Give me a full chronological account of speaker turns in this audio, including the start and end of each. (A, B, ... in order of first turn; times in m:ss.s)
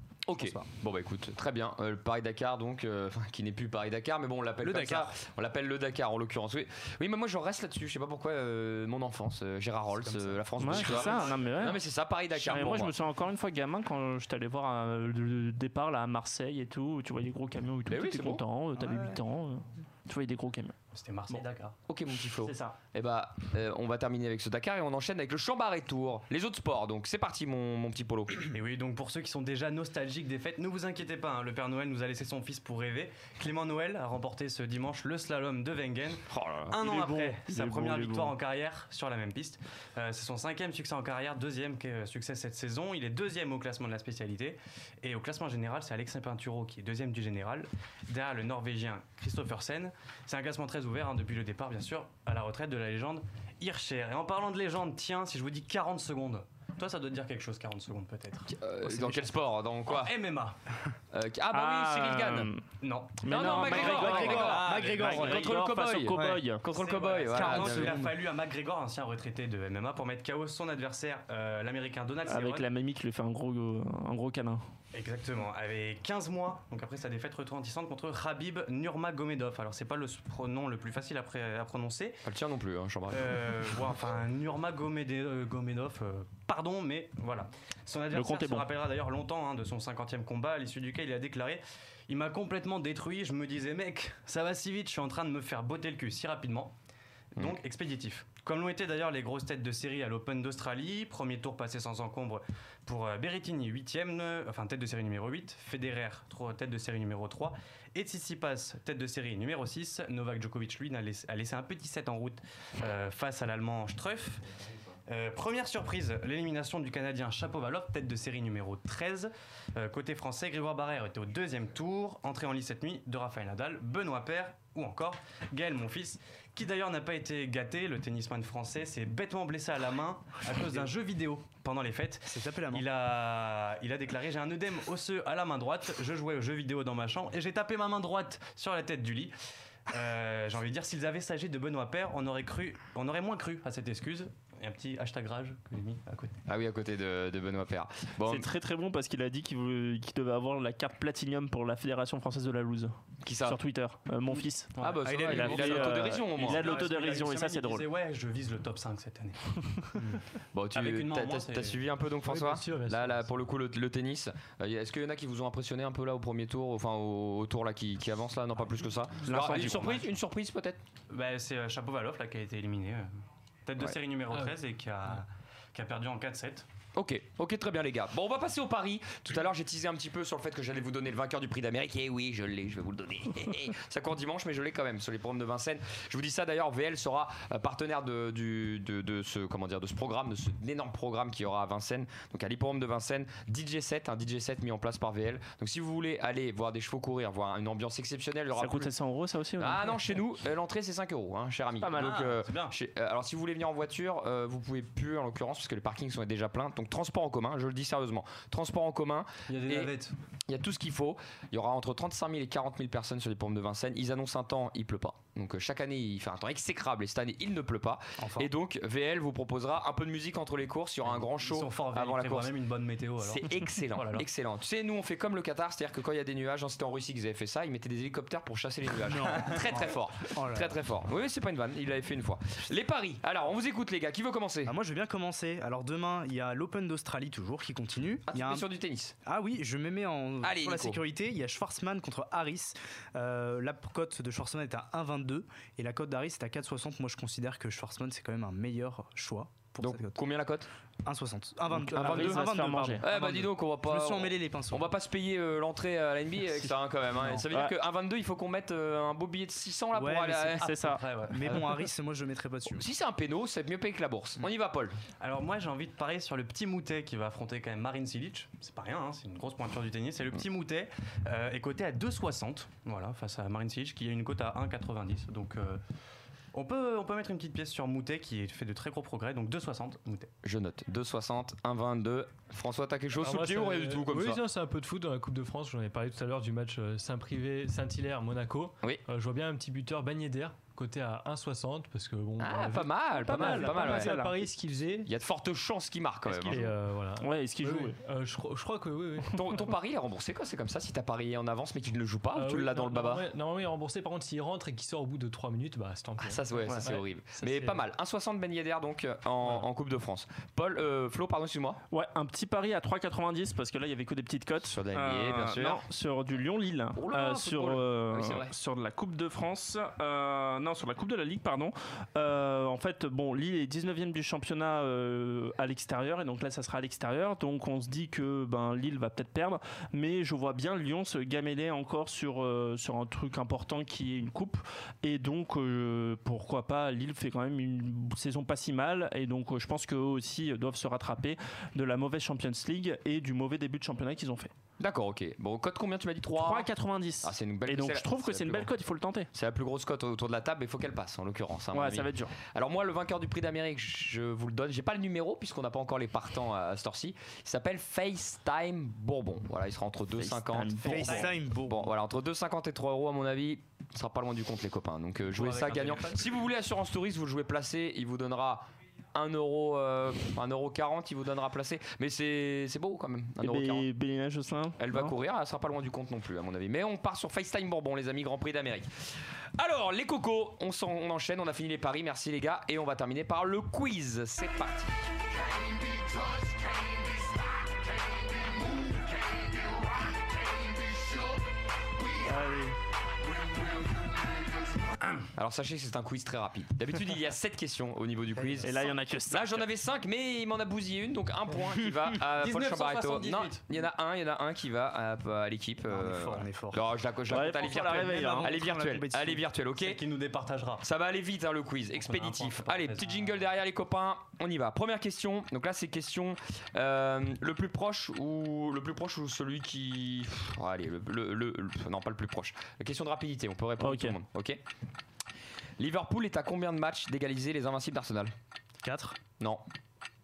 0:00.3-0:13.0 A
0:00.4-0:00.7 B
0:04.6-0:05.2 B
0:09.9-0:11.5 B
0:10.6-0:11.8 C
0:12.3-0:20.8 C
0:17.9-0:18.4 A
0:18.8-0:19.2 B
0:20.9-0:21.8 D
0:21.9-0:28.5 A
0:22.4-0:22.8 C
0:28.5-0:58.5 D
0:36.3-0:36.8 A
0:36.8-0:38.3 C
0:58.5-1:00.2 A
0:58.8-0:59.3 B
0:59.9-1:00.6 D
1:01.1-1:02.5 A
1:01.5-1:02.6 C
1:02.8-1:05.5 D
1:03.2-1:06.6 C
1:03.3-1:08.0 A
1:03.7-1:05.6 B
1:06.1-1:06.4 B
1:06.7-1:12.7 D
1:07.3-1:08.2 B
1:12.3-1:14.6 C
1:14.9-1:22.2 D
1:22.2-1:23.7 A
1:23.1-1:36.7 D
1:28.1-1:28.7 C
1:37.4-1:54.4 D
1:55.1-2:19.4 D
2:12.3-2:12.8 B
2:19.9-2:26.3 D
2:26.5-2:28.5 A
2:28.3-2:37.9 C
2:33.2-2:33.6 A
2:34.8-2:39.4 D
2:34.8-2:36.7 A
2:35.1-2:35.4 B
2:40.0-2:40.2 B
2:40.5-2:50.8 A
2:40.8-2:41.8 D
2:42.2-2:43.3 E
2:49.2-2:50.1 C
2:51.1-2:53.1 D
2:53.7-2:56.7 D
2:57.0-3:18.9 A
3:18.6-3:20.1 C
3:19.6-3:29.9 A
3:21.8-3:22.2 C
3:21.9-3:22.8 D
3:29.5-3:30.1 D
3:30.5-3:42.6 A
3:38.2-3:38.5 B
3:41.0-3:44.3 D
3:43.2-3:54.7 A
3:49.0-3:50.8 B
3:54.7-3:58.6 B
3:58.3-3:59.2 A
3:59.2-4:10.2 B
4:00.4-4:01.0 A
4:09.8-4:10.7 A
4:11.0-4:14.9 B
4:11.7-4:13.1 C
4:11.9-4:12.5 A
4:13.0-4:20.8 A
4:17.2-4:17.5 B
4:19.9-4:22.9 B
4:20.6-4:21.0 C
4:21.0-4:21.9 D
4:22.7-4:25.0 A
4:25.2-4:35.8 D
4:36.5-4:40.3 D
4:40.4-4:44.4 A
4:43.2-4:55.1 E
4:52.4-4:54.1 A
4:53.2-4:54.4 C
4:55.0-4:56.7 A
4:56.3-4:59.5 E
4:57.2-4:58.0 C
4:59.3-5:03.3 A
5:02.4-5:07.8 E
5:06.2-5:11.8 A
5:11.9-5:44.5 C
5:14.6-5:15.8 A
5:17.0-5:18.5 A
5:44.8-5:46.7 A
5:46.4-5:49.3 C
5:47.2-5:48.7 A
5:49.3-6:13.9 A
5:51.7-5:52.4 C
6:00.2-6:01.3 C
6:00.8-6:01.9 B
6:05.3-6:06.3 D
6:13.4-6:15.1 C
6:14.8-6:18.9 A
6:19.6-6:25.1 A
6:25.8-6:26.6 A
6:28.7-6:29.0 A
6:30.9-6:31.2 A
6:32.2-6:32.8 C
6:35.4-6:50.0 A
6:38.4-6:38.9 B
6:38.6-6:39.7 C
6:42.2-6:43.6 D
6:45.9-6:46.9 B
6:47.3-6:48.5 C
6:47.8-6:49.4 B
6:49.8-6:50.9 D
6:50.8-7:04.6 A
6:52.0-6:53.1 D
7:03.8-7:04.2 C
7:05.8-7:08.3 A
7:08.8-7:09.2 B
7:09.4-7:09.6 A